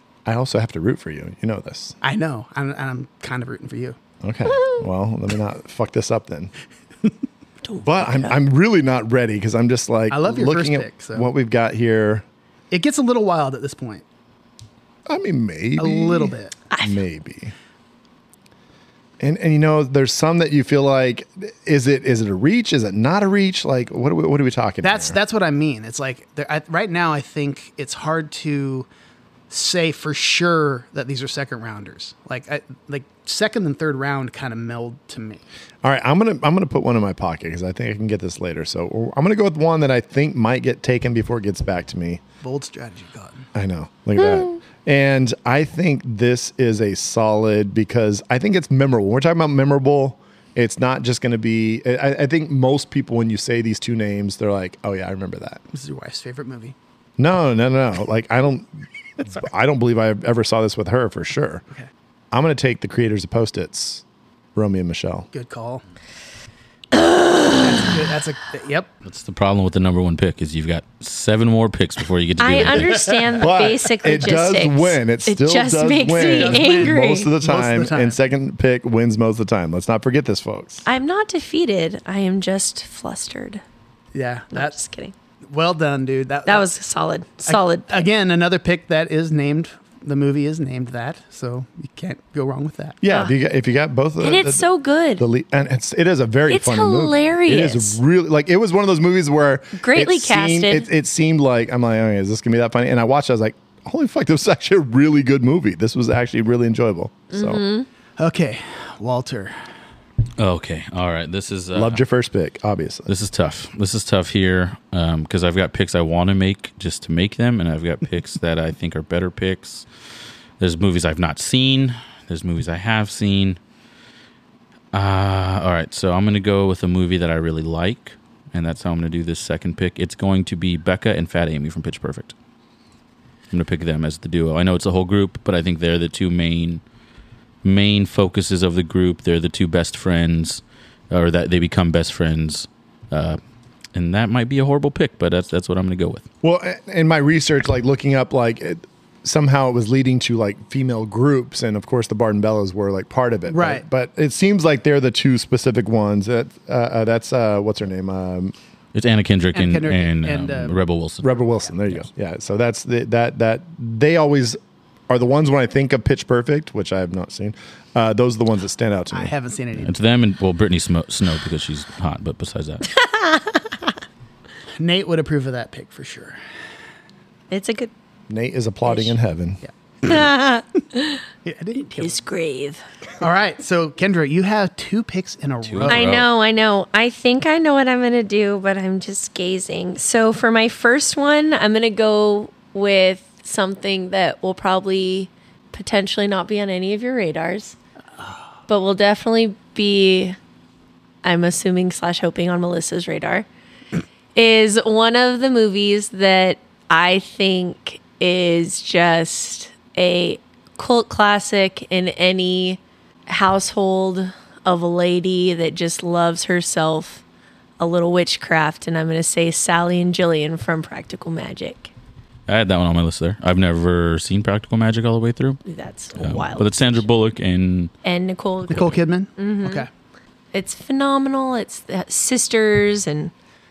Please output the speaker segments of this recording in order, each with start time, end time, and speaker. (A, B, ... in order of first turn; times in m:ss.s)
0:00.2-0:02.0 A
0:02.0-0:04.0 B
0:04.2-0:06.5 A
0:07.6-0:08.4 C
0:07.8-0:12.2 A
0:10.1-0:11.3 B
0:12.7-0:14.0 B
0:15.0-0:17.5 A
0:15.8-0:16.5 B
0:16.7-0:17.0 C
0:19.2-0:25.2 A
0:24.8-0:28.9 B
0:29.5-0:35.4 B
0:35.8-0:42.2 A
0:42.4-0:43.5 B
0:43.5-0:55.6 A
0:44.2-0:44.6 C
0:55.7-0:56.7 B
0:57.2-1:01.6 A
1:02.3-1:04.0 A
1:04.5-1:05.3 A
1:05.3-1:05.8 B
1:06.9-1:07.9 C
1:07.6-1:08.9 B
1:09.0-1:13.1 D
1:12.4-1:17.3 C
1:12.8-1:13.1 B
1:13.4-1:20.8 A
1:16.1-1:18.2 B
1:20.8-1:23.6 C
1:24.1-1:24.7 B
1:24.5-1:25.1 C
1:25.5-1:26.7 B
1:26.4-1:28.1 C
1:27.5-1:33.0 B
1:33.0-1:47.6 A
1:33.1-1:33.3 C
1:34.2-1:35.2 C
1:36.5-1:38.0 C
1:39.8-1:40.9 C
1:47.3-1:47.9 C
1:48.2-1:49.5 B
1:50.4-1:52.0 D
1:51.7-1:53.1 A
1:53.1-1:59.9 D
2:00.6-2:03.6 D
2:04.9-2:12.3 D
2:13.5-2:16.8 D
2:17.6-2:23.4 D
2:23.9-2:26.2 D
2:26.4-2:38.5 A
2:33.5-2:33.8 B
2:38.9-2:42.0 D
2:39.5-2:40.8 B
2:41.2-2:49.3 A
2:49.1-2:49.9 B
2:49.8-2:52.9 D
2:53.0-2:53.6 C
2:54.8-2:56.4 B
2:57.5-2:57.9 C
2:58.3-2:59.6 A
2:59.6-3:00.2 B
3:00.0-3:01.2 C
3:01.4-3:02.2 B
3:02.0-3:02.8 C
3:03.2-3:06.0 B
3:05.6-3:06.2 D
3:05.9-3:17.8 C
3:18.7-3:20.4 C
3:21.2-3:23.4 C
3:24.3-3:37.2 C
3:37.8-3:41.9 C
3:42.5-3:45.6 D
3:45.6-3:47.0 C
3:46.2-3:47.9 D
3:48.0-3:49.9 C
3:48.7-3:49.9 B
3:50.5-3:53.3 C